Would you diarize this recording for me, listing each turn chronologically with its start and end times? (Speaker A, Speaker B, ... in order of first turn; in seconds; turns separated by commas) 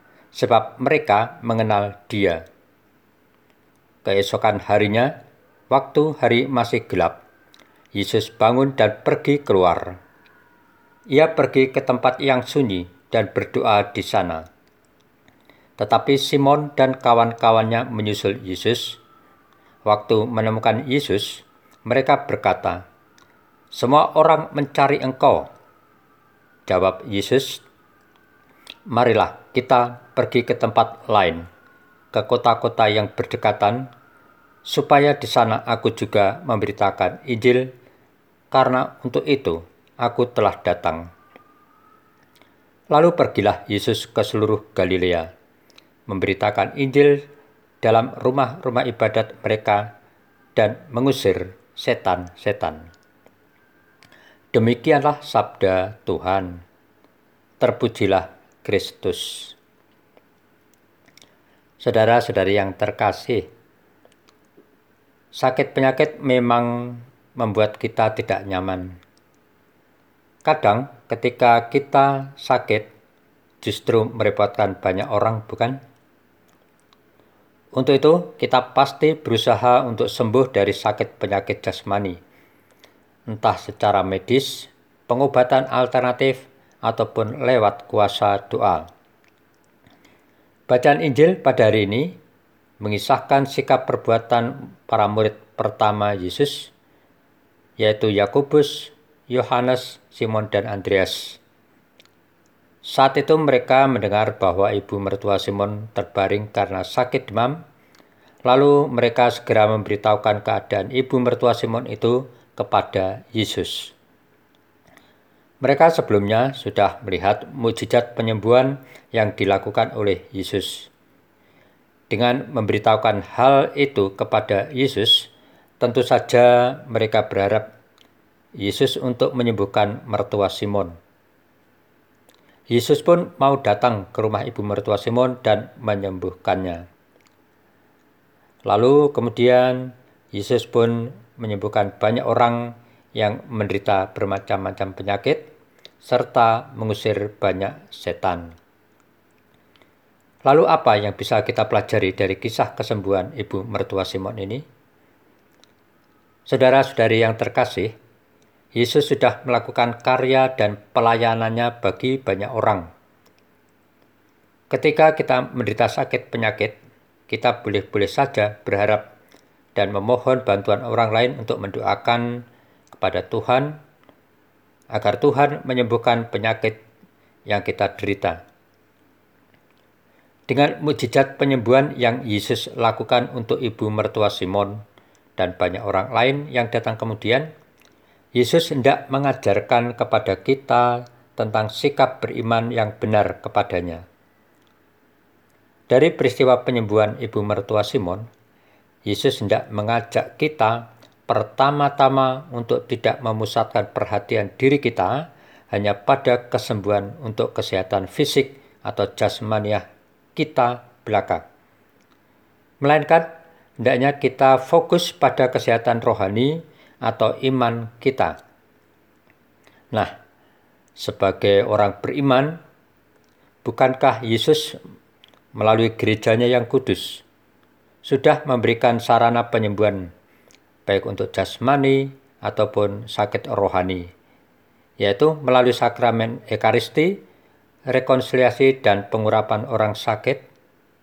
Speaker A: 0.3-2.4, Speaker A: 4.0-5.1, Speaker A: 5.7-7.2, Speaker A: 7.9-10.0, Speaker A: 11.1-14.4, Speaker A: 15.8-19.0, Speaker A: 19.9-22.8, Speaker A: 23.7-25.5, Speaker A: 26.7-27.6, Speaker A: 28.9-31.4, Speaker A: 32.1-33.9, Speaker A: 34.7-37.7, Speaker A: 38.5-41.0, Speaker A: 42.9-45.3, Speaker A: 46.1-47.2, Speaker A: 47.8-49.9, Speaker A: 50.5-52.9, Speaker A: 54.5-56.6, Speaker A: 57.6-59.5, Speaker A: 61.8-63.5, Speaker A: 65.3-69.0, Speaker A: 70.4-72.9, Speaker A: 73.6-75.8, Speaker A: 77.8-82.2, Speaker A: 83.3-88.9, Speaker A: 90.7-92.1, Speaker A: 92.8-96.7, Speaker A: 97.8-101.4, Speaker A: 102.9-107.6, Speaker A: 108.4-113.9, Speaker A: 115.6-120.9, Speaker A: 122.1-125.3, Speaker A: 125.8-127.6, Speaker A: 128.6-130.9, Speaker A: 132.7-136.8, Speaker A: 138.7-145.4, Speaker A: 146.0-148.5, Speaker A: 150.4-154.6, Speaker A: 156.5-157.9, Speaker A: 158.7-162.8, Speaker A: 164.7-166.8, Speaker A: 167.3-169.0, Speaker A: 169.8-173.8, Speaker A: 174.9-176.8, Speaker A: 177.5-178.4, Speaker A: 180.5-184.8, Speaker A: 185.4-187.5, Speaker A: 188.3-194.0, Speaker A: 195.9-198.2, Speaker A: 199.1-205.1, Speaker A: 205.7-209.8, Speaker A: 210.3-211.4, Speaker A: 212.8-213.3, Speaker A: 213.8-218.4, Speaker A: 221.0-222.6, Speaker A: 223.6-224.8, Speaker A: 225.6-227.2, Speaker A: 228.0-230.1, Speaker A: 230.8-234.1, Speaker A: 235.0-237.2, Speaker A: 237.9-240.4